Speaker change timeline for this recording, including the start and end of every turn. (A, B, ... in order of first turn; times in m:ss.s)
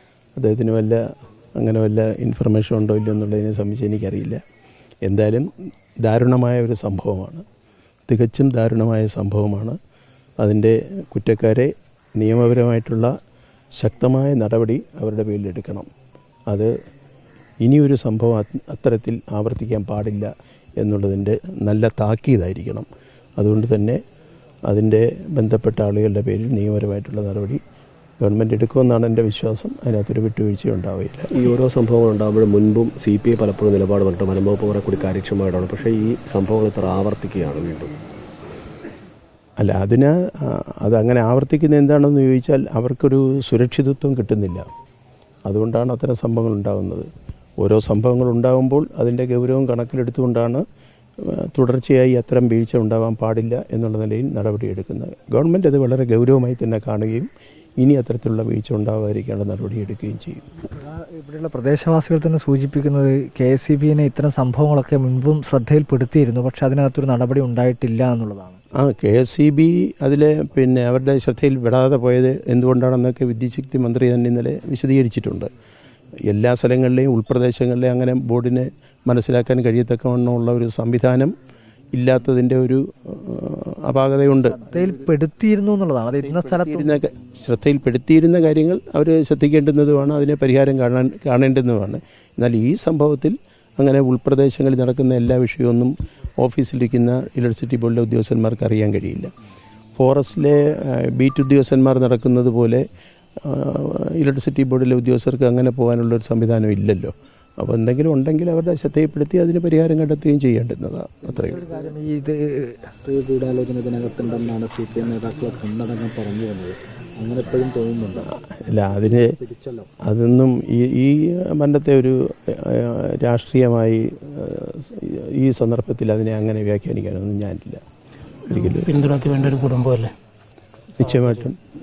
0:00.4-0:01.0 A
0:01.6-0:04.4 A
0:05.0-0:05.5 A
0:06.0-0:07.4 A
0:08.1-0:09.8 A
0:10.4-0:13.1 A
0:13.8-0:15.9 A
0:17.6-0:22.9 A
0:23.4-0:24.0 A
0:24.7-0:27.6 A
0:28.2-0:31.4 A
0:31.3-0:37.9 B
0:39.6-0:44.7 A
0:45.4-0:47.1 A
0:47.6-0:50.6 A
0:51.2-0:57.3 A
0:57.8-1:00.4 A
1:00.7-1:08.6 C
1:08.8-1:15.5 A
1:16.2-1:21.3 A
1:21.9-1:24.7 A
1:24.6-1:27.0 C
1:26.2-1:39.3 A
1:40.0-1:42.8 A
1:43.4-1:51.6 A
1:51.3-1:52.0 D
1:51.5-1:52.9 C
1:53.0-1:58.3 D
1:58.3-1:59.3 A
1:58.9-1:59.9 D
2:00.0-2:07.8 A
2:08.5-2:09.0 A
2:08.5-2:10.1 E
2:10.9-2:11.5 E
2:11.0-2:11.6 A